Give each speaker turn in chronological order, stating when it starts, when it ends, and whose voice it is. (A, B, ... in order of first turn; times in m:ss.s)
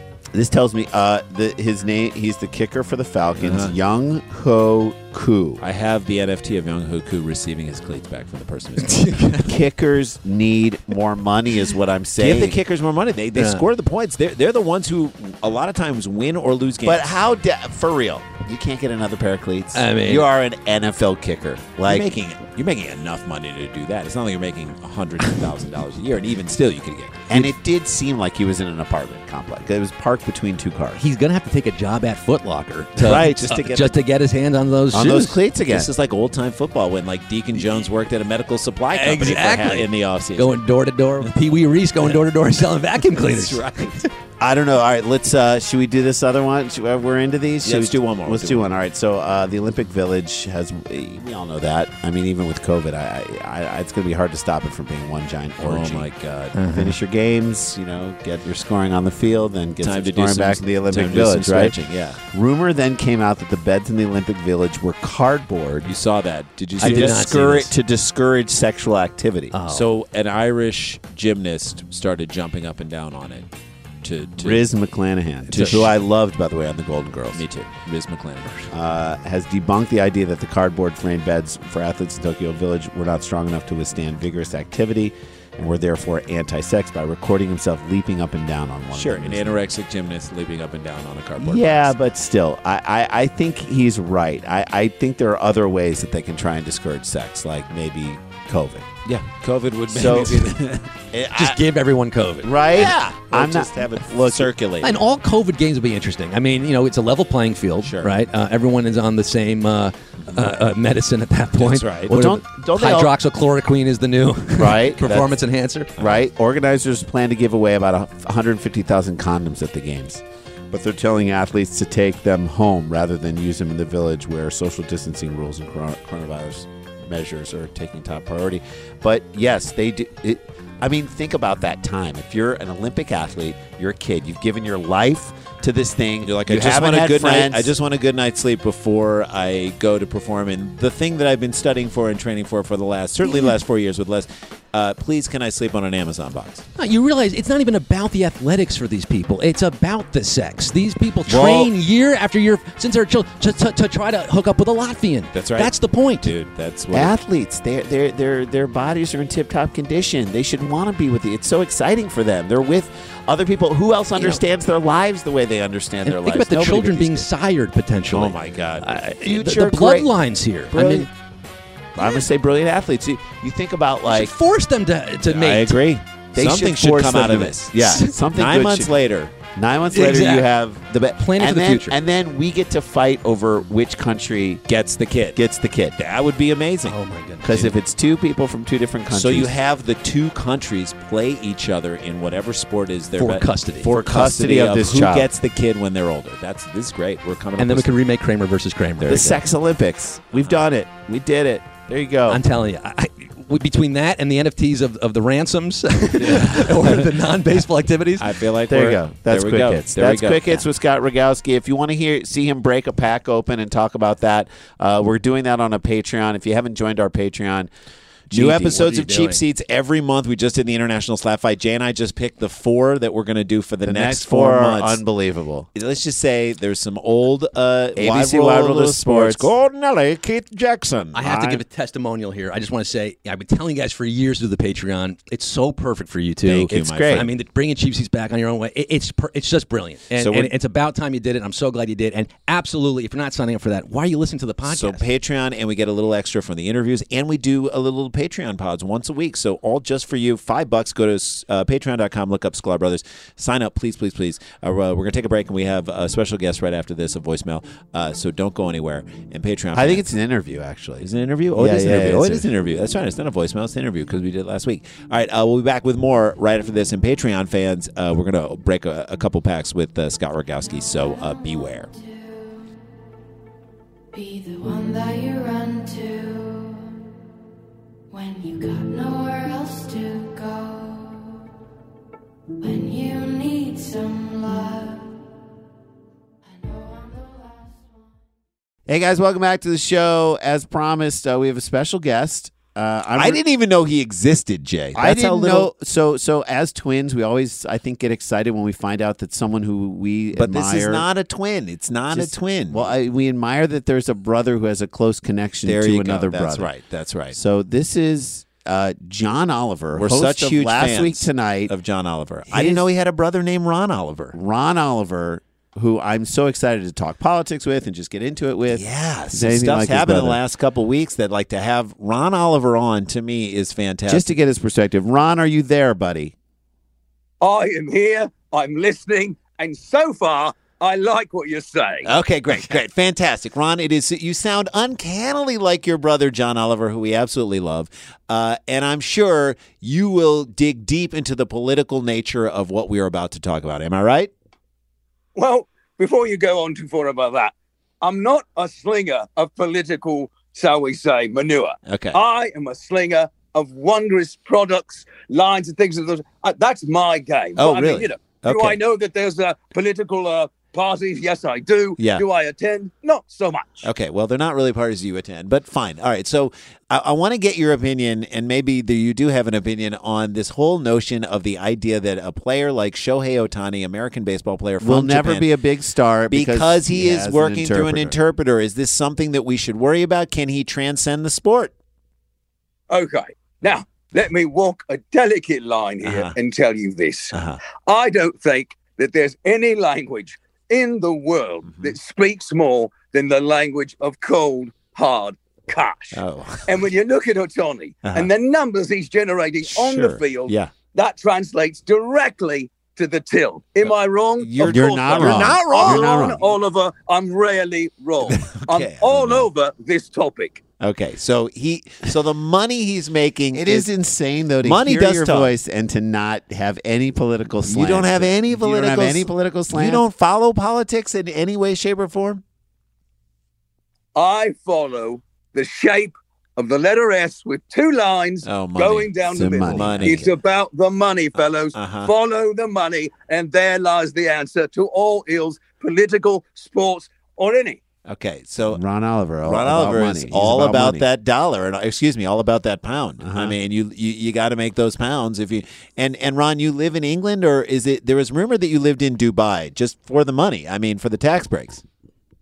0:00.3-0:05.6 A
0:03.4-0:03.7 B
0:05.6-0:09.3 B
0:08.8-0:09.5 C
0:09.4-0:12.6 A
0:12.2-0:17.1 B
0:13.3-0:13.6 C
0:16.8-0:22.1 A
0:19.7-0:20.2 C
0:21.8-0:27.5 B
0:27.3-0:31.0 A
0:31.0-0:35.4 C
0:33.0-0:34.0 B
0:34.9-0:35.9 A
0:35.7-0:40.6 B
0:38.9-0:43.6 C
0:43.0-0:44.1 B
0:44.4-0:56.1 A
0:47.6-0:48.7 B
0:55.6-0:56.6 B
0:56.5-0:56.9 C
0:56.7-1:05.9 A
0:59.8-1:02.2 B
1:05.8-1:07.7 B
1:06.8-1:07.7 C
1:06.8-1:09.5 A
1:09.5-1:09.9 C
1:09.7-1:13.5 B
1:14.0-1:14.7 B
1:14.4-1:17.4 A
1:15.5-1:15.9 B
1:15.5-1:15.8 C
1:17.3-1:18.7 B
1:18.7-1:29.6 A
1:28.9-1:31.9 B
1:31.4-1:38.9 A
1:39.0-1:41.0 B
1:39.9-1:40.6 A
1:41.1-1:41.5 A
1:41.3-1:42.6 C
1:42.4-1:44.5 A
1:42.7-1:45.0 B
1:44.8-1:55.9 C
1:47.8-1:48.1 B
1:51.6-1:52.1 B
1:52.1-1:53.1 A
1:54.5-1:55.3 A
1:56.0-2:17.7 A
2:16.2-2:26.7 B
2:26.8-2:36.3 C
2:31.3-2:31.6 B
2:35.3-2:37.1 B
2:36.9-2:47.2 A
2:46.0-2:51.1 C
2:48.1-2:49.0 B
2:49.2-2:50.1 A
2:50.7-2:51.1 A
2:51.9-2:54.3 A
2:54.0-2:55.8 C
2:55.2-2:59.3 B
2:56.3-2:59.0 A
2:57.8-2:58.1 C
2:59.5-3:04.6 A
2:59.9-3:00.5 C
3:01.2-3:02.0 C
3:04.7-3:05.4 B
3:05.3-3:06.0 A
3:06.0-3:07.7 B
3:06.8-3:07.5 C
3:07.4-3:09.5 A
3:09.1-3:17.9 B
3:13.2-3:13.9 C
3:13.8-3:15.3 A
3:17.6-3:19.4 C
3:19.0-3:22.4 A
3:22.3-3:28.3 C
3:26.2-3:27.2 B
3:28.2-3:30.6 B
3:28.7-3:37.7 A
3:38.3-3:39.0 A
3:38.3-3:45.0 B
3:38.6-3:39.4 C
3:43.8-3:45.7 A
3:45.7-3:51.6 B
3:48.0-3:49.5 A
3:51.1-4:05.0 C
3:56.4-3:57.3 B
3:56.7-3:57.3 A
4:00.2-4:00.5 B
4:04.7-4:20.0 B
4:19.7-4:22.5 A
4:21.0-4:31.9 B
4:31.4-4:32.6 D
4:34.1-4:37.0 D
4:38.1-4:41.5 D
4:42.6-4:45.1 D
4:46.5-4:47.9 D
4:48.9-4:53.4 A
4:53.2-4:55.7 B
4:54.9-5:01.0 A
5:00.3-5:02.9 B
5:02.1-5:06.7 A
5:05.6-5:07.4 B
5:07.3-5:11.7 A
5:09.9-5:14.3 B
5:12.5-5:12.9 A
5:14.3-5:20.4 A
5:18.7-5:24.2 B
5:24.1-5:26.3 A
5:27.4-5:32.1 E
5:32.0-5:44.3 B
5:45.3-6:03.9 E
5:51.8-5:52.2 B
5:57.6-5:58.8 B
6:02.0-6:02.2 B
6:03.8-6:15.5 B
6:14.8-6:18.2 A
6:16.3-6:21.7 B
6:22.9-6:50.6 E
6:26.0-6:26.3 B
6:27.3-6:27.6 B
6:31.6-6:32.0 B
6:36.1-6:36.9 B
6:38.0-6:38.3 B
6:39.6-6:40.7 B
6:43.8-6:46.5 B
6:44.6-6:46.4 A
6:48.2-6:49.5 B
6:50.8-6:53.9 B
6:53.5-7:00.0 A
6:54.6-6:55.5 B
6:57.7-7:02.4 B
7:04.1-7:17.8 E
7:08.4-7:10.4 B
7:09.3-7:10.2 A
7:11.7-7:12.1 B
7:18.0-7:18.8 B
7:18.7-7:21.0 A
7:19.4-7:31.8 B
7:23.2-7:23.5 A